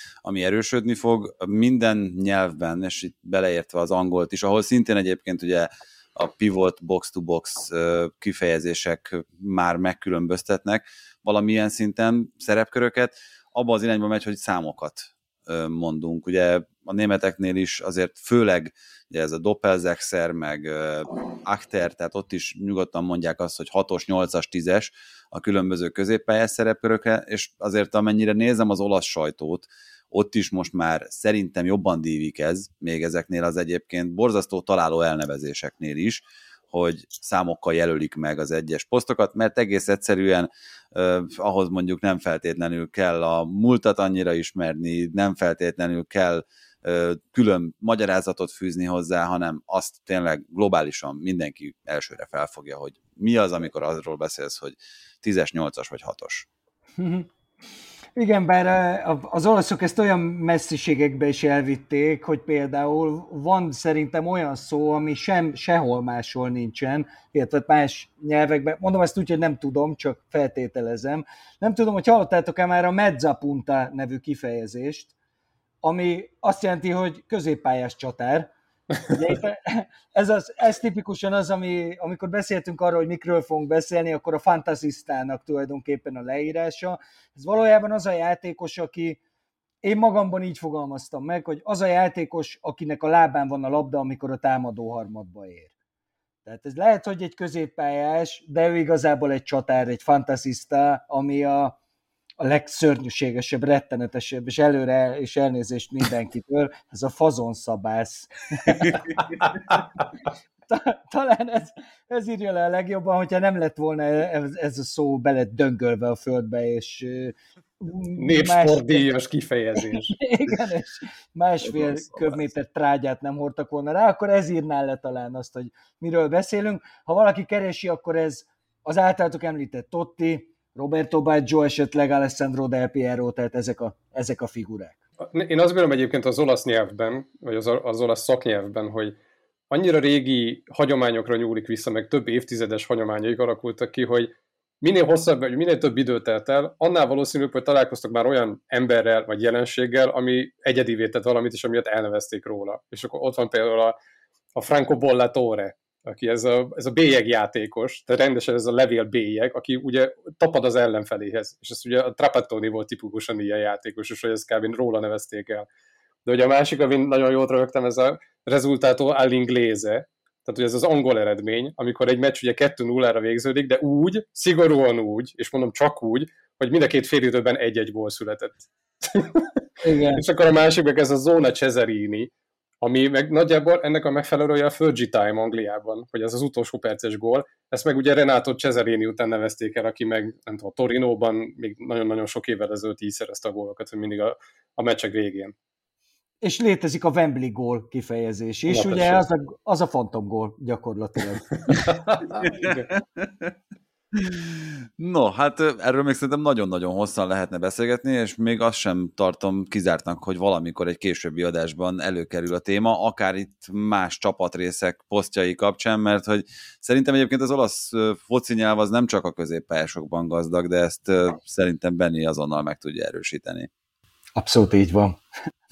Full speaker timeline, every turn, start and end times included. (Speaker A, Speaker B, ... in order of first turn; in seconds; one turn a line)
Speaker A: 0.2-56.5
Speaker B: 57.0-57.3
Speaker B: 58.1-75.1
Speaker B: 75.8-78.5
Speaker B: 79.1-89.2
Speaker B: 89.8-95.7
Speaker B: 96.5-101.7
Speaker B: 102.4-109.0
Speaker B: 110.7-119.1
Speaker C: 118.2-120.1
Speaker B: 119.8-135.0
Speaker C: 135.3-139.1
Speaker C: 139.7-153.9
Speaker C: 154.5-165.7
Speaker C: 166.2-179.5
Speaker B: 179.8-180.2
Speaker C: 180.1-182.3
Speaker C: 182.8-195.5
Speaker B: 196.4-201.7
Speaker C: 198.7-199.2
Speaker C: 201.7-202.9
Speaker A: 202.3-203.5
Speaker A: 204.1-223.7
Speaker B: 224.3-225.2